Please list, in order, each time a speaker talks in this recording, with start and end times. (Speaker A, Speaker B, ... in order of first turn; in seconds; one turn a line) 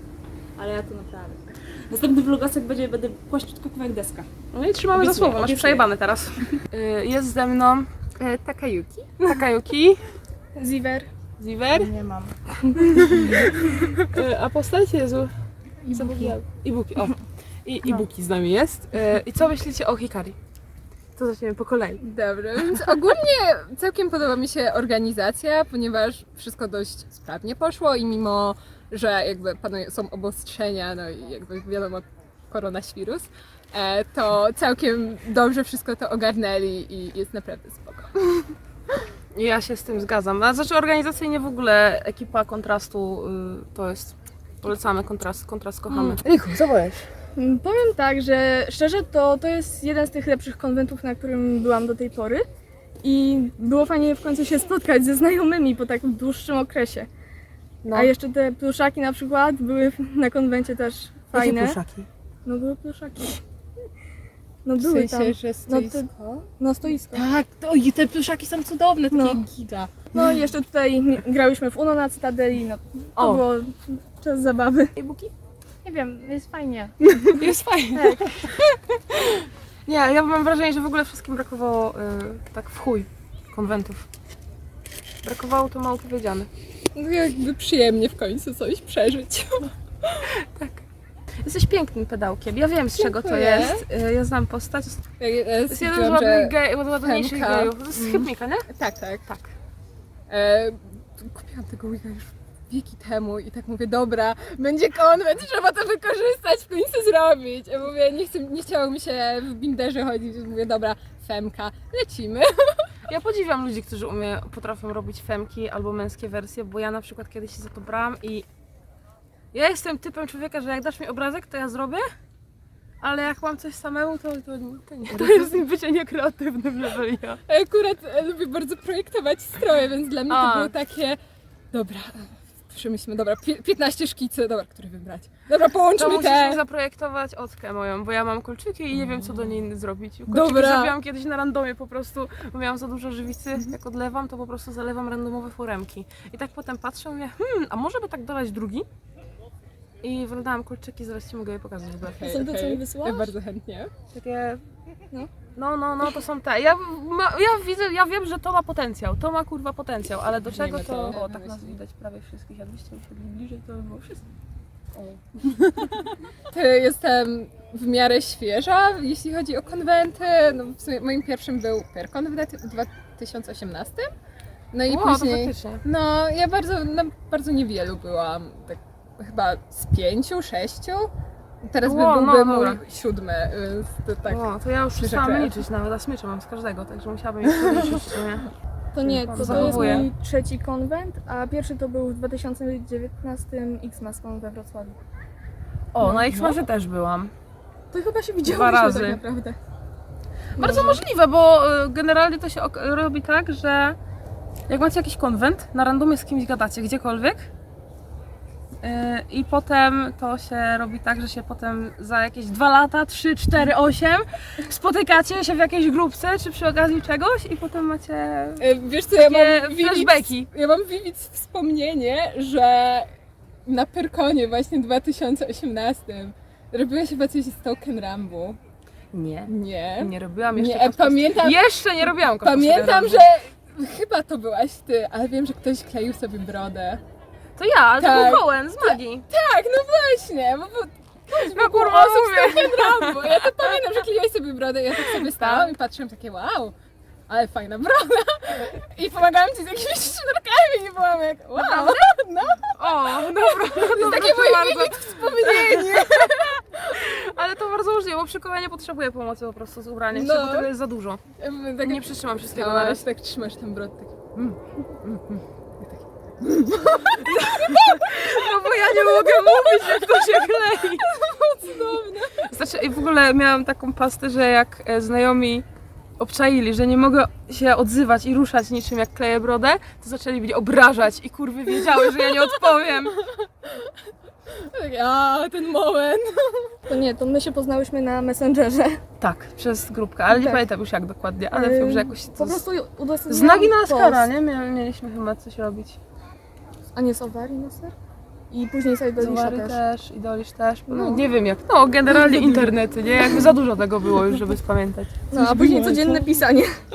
Speaker A: 0.6-4.3
Speaker B: 4.5-8.0
Speaker A: 4.9-6.6
Speaker C: 8.2-9.2
Speaker B: 9.2-10.0
Speaker D: 10.6-11.1
Speaker B: 11.4-11.9
Speaker A: 11.7-12.3
Speaker B: 13.1-13.4
Speaker B: 14.1-15.3
Speaker B: 15.9-20.4
Speaker B: 21.1-22.0
Speaker C: 22.0-38.2
Speaker B: 39.3-47.1
Speaker D: 47.3-52.5
Speaker D: 53.0-57.1
Speaker B: 57.8-58.1
Speaker D: 57.9-61.8
Speaker B: 61.3-62.1
Speaker D: 62.4-63.4
Speaker D: 64.6-67.2
Speaker C: 64.8-66.4
Speaker C: 67.1-69.9
Speaker D: 69.1-69.4
Speaker D: 70.1-74.9
Speaker B: 73.2-73.4
Speaker B: 75.0-75.3
Speaker D: 75.8-77.4
Speaker B: 77.3-78.5
Speaker D: 77.9-78.5
Speaker B: 79.8-84.0
Speaker B: 85.2-86.5
Speaker C: 86.9-89.7
Speaker B: 90.3-90.8
Speaker B: 91.4-95.0
Speaker C: 92.9-93.8
Speaker C: 95.2-99.3
Speaker B: 95.7-98.7
Speaker B: 99.2-99.5
Speaker C: 100.3-112.9
Speaker B: 113.1-118.5
Speaker B: 119.5-122.0
Speaker B: 123.0-127.4
Speaker C: 125.1-125.5
Speaker C: 127.5-131.2
Speaker B: 130.3-130.7
Speaker C: 131.7-136.6
Speaker B: 136.0-148.9
Speaker C: 140.3-140.9
Speaker B: 150.0-152.4
Speaker C: 152.0-153.9
Speaker D: 152.2-153.3
Speaker B: 154.1-154.6
Speaker B: 155.6-164.2
Speaker C: 160.5-161.8
Speaker B: 164.9-165.2
Speaker C: 166.5-174.1
Speaker C: 174.7-181.1
Speaker B: 174.9-175.8
Speaker C: 181.6-185.6
Speaker B: 181.8-182.8
Speaker B: 184.2-188.5
Speaker D: 188.9-195.0
Speaker B: 189.0-190.1
Speaker C: 189.3-190.0
Speaker B: 195.9-197.3
Speaker D: 196.0-196.6
Speaker D: 197.9-199.6
Speaker B: 198.4-199.2
Speaker D: 200.6-201.0
Speaker B: 200.6-204.0
Speaker B: 204.7-207.5
Speaker B: 208.8-218.6
Speaker C: 218.6-223.1
Speaker B: 219.2-220.5
Speaker C: 223.7-228.6
Speaker B: 229.1-233.3
Speaker C: 229.5-237.0
Speaker B: 237.6-239.2
Speaker C: 238.0-246.7
Speaker B: 241.5-243.8
Speaker B: 244.9-245.7
Speaker C: 247.3-257.0
Speaker B: 251.5-252.2
Speaker B: 252.7-261.2
Speaker C: 260.1-260.7
Speaker C: 261.4-264.2
Speaker B: 261.8-263.0
Speaker B: 264.3-265.4
Speaker C: 265.8-272.5
Speaker B: 266.7-271.1
Speaker B: 272.4-275.6
Speaker B: 276.2-283.1
Speaker C: 283.2-283.9
Speaker C: 284.5-286.8
Speaker D: 286.9-289.0
Speaker B: 289.2-292.6
Speaker D: 290.3-290.6
Speaker D: 291.5-294.3
Speaker B: 293.3-296.0
Speaker D: 296.9-297.9
Speaker D: 298.5-299.8
Speaker B: 299.2-305.2
Speaker D: 300.9-301.3
Speaker D: 302.2-302.7
Speaker D: 305.3-306.8
Speaker A: 305.4-306.2